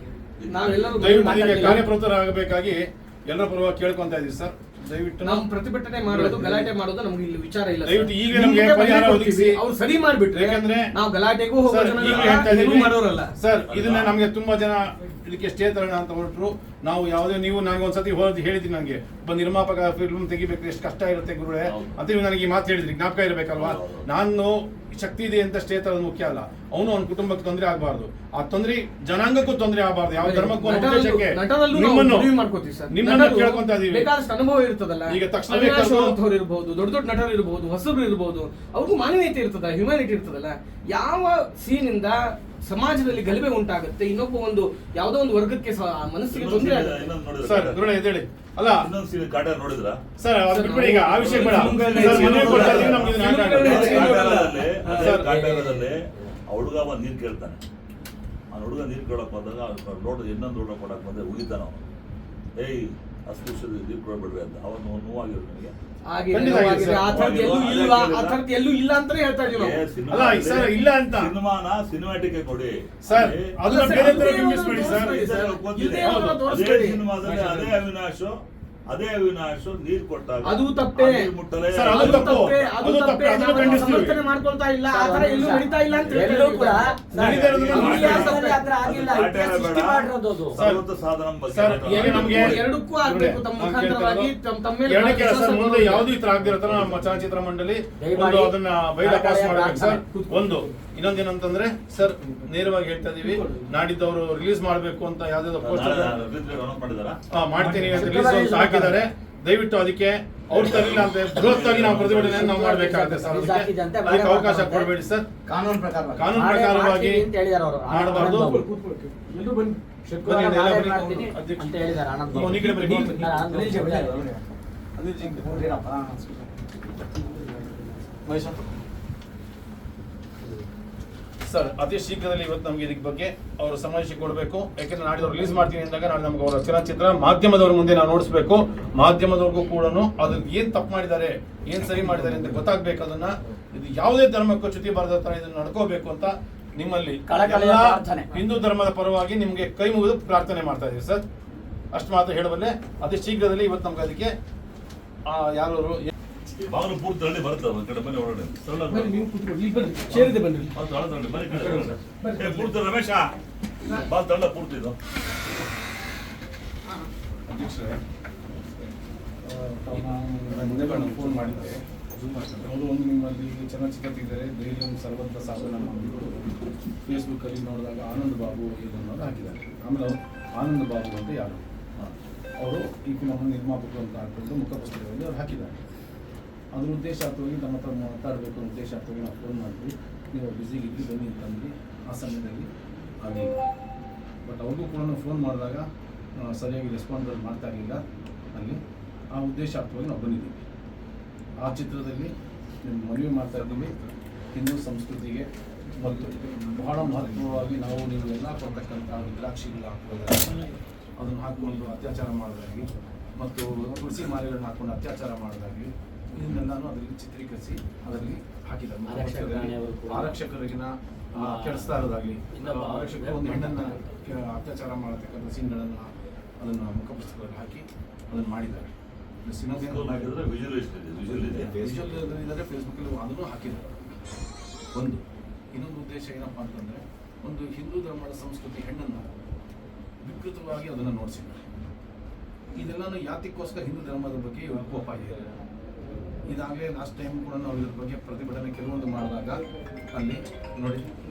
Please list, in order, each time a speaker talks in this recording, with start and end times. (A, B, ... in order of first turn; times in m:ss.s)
0:00.4-0:01.2 A
0:00.5-0:01.9 B
0:01.0-0:05.4 C
0:01.4-0:01.7 D
0:05.2-0:13.3 B
0:06.1-0:06.7 C
0:07.8-0:09.6 C
0:10.3-0:10.9 C
0:11.6-0:32.3 C
0:12.0-0:12.5 A
0:13.7-0:14.2 A
0:21.6-0:22.0 A
0:23.6-0:24.1 A
0:30.2-0:47.1 B
0:32.9-0:34.1 C
0:35.1-0:36.2 C
0:46.3-0:48.0 A
0:47.4-0:48.9 C
0:48.8-0:50.0 A
0:50.2-0:55.7 C
0:50.5-0:55.2 B
0:51.2-0:57.6 A
0:58.5-1:01.8 A
1:02.6-1:05.7 A
1:06.1-1:09.8 B
1:06.3-1:07.3 C
1:06.4-1:08.4 A
1:09.4-1:22.8 A
1:10.1-1:11.3 C
1:13.1-1:15.2 C
1:13.6-1:17.0 B
1:16.0-1:16.4 C
1:17.2-1:17.8 C
1:20.4-1:21.2 B
1:21.7-1:24.2 C
1:21.9-1:28.7 B
1:23.6-1:23.9 A
1:24.9-1:30.6 D
1:27.1-1:28.4 C
1:27.2-1:32.6 A
1:30.6-1:30.9 C
1:31.5-1:34.3 C
1:31.9-1:36.1 B
1:34.9-1:46.2 C
1:38.0-1:40.7 D
1:43.2-1:43.7 B
1:45.6-1:47.2 A
1:47.3-1:55.3 C
1:47.6-1:49.1 D
1:50.5-1:52.6 A
1:52.2-1:54.9 D
1:55.5-1:56.3 E
1:56.2-1:57.3 C
1:56.3-1:58.7 D
1:57.9-1:58.6 C
1:58.1-1:59.8 B
2:00.0-2:04.3 D
2:00.2-2:03.4 C
2:03.4-2:04.4 E
2:05.0-2:05.6 C
2:05.4-2:06.6 E
2:08.2-2:08.6 C
2:11.4-2:31.2 C
2:27.3-2:28.4 D
2:31.9-2:34.3 C
2:35.3-2:36.0 C
2:36.6-2:39.3 A
2:38.9-2:40.8 B
2:40.1-2:43.3 A
2:41.6-2:42.7 B
2:43.9-2:45.0 A
2:47.5-2:48.0 C
2:49.4-2:51.8 C
2:52.5-2:56.5 C
2:57.1-3:01.7 C
3:02.6-3:05.8 C
3:06.7-3:12.7 C
3:13.2-3:13.6 C
3:14.4-3:15.9 C
3:16.5-3:18.0 C
3:18.5-3:18.8 C
3:19.3-3:20.6 C
3:21.6-3:22.3 C
3:22.8-3:24.0 C
3:24.6-3:25.5 C
3:26.0-3:48.9 C
3:39.1-3:40.4 D
3:41.3-3:44.1 D
3:49.4-3:50.3 C
3:49.7-3:51.8 A
3:51.3-3:54.2 C
3:54.9-3:55.2 C
3:55.7-3:59.3 C
4:00.2-4:01.6 C
4:02.8-4:05.5 C
4:06.5-4:09.6 C
4:10.1-4:11.1 C